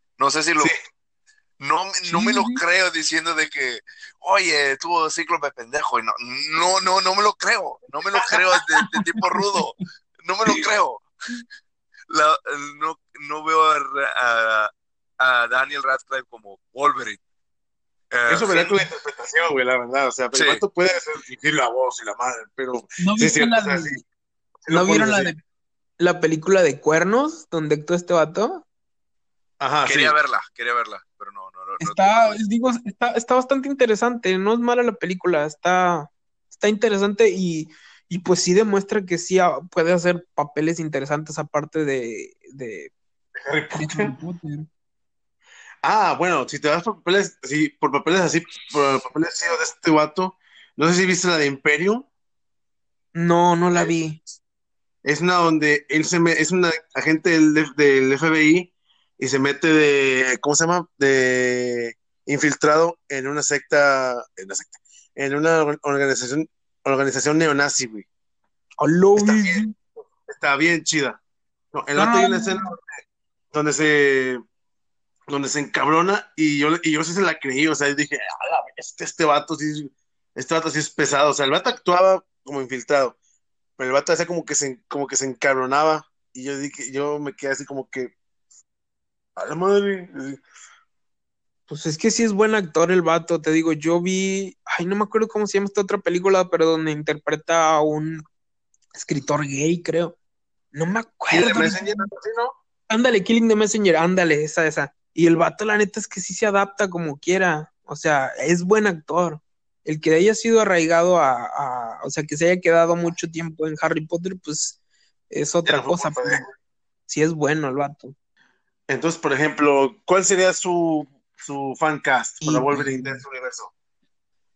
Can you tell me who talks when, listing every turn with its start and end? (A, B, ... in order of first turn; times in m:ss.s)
0:00.2-0:00.7 A
0:01.6-0:11.0 A
0:02.0-0:02.6 B
0:09.0-0:09.4 B
0:12.1-0:17.2 A
0:18.1-0:18.7 A
0:18.3-0:24.0 C
0:20.3-0:20.6 A
0:23.0-0:24.0 B
0:24.6-0:25.3 C
0:24.7-0:25.4 B
0:26.0-0:28.6 B
0:29.6-0:30.1 C
0:29.8-0:32.4 A
0:31.8-0:42.9 B
0:43.4-0:44.1 C
0:43.8-0:44.7 B
0:45.8-0:52.1 C
0:53.2-0:54.2 B
0:55.0-1:08.1 C
1:08.8-1:09.7 B
1:09.2-1:09.6 C
1:10.2-1:11.2 C
1:11.7-1:14.4 C
1:12.0-1:12.7 B
1:15.3-1:23.2 C
1:23.8-1:28.1 C
1:29.4-1:30.4 C
1:31.7-1:38.2 B
1:38.9-1:40.2 B
1:40.7-1:42.1 B
1:41.3-1:42.6 C
1:42.9-1:54.8 B
1:55.3-1:56.4 B
1:55.7-1:56.5 C
1:57.1-1:58.2 B
1:58.9-2:03.7 C
2:02.4-2:03.2 B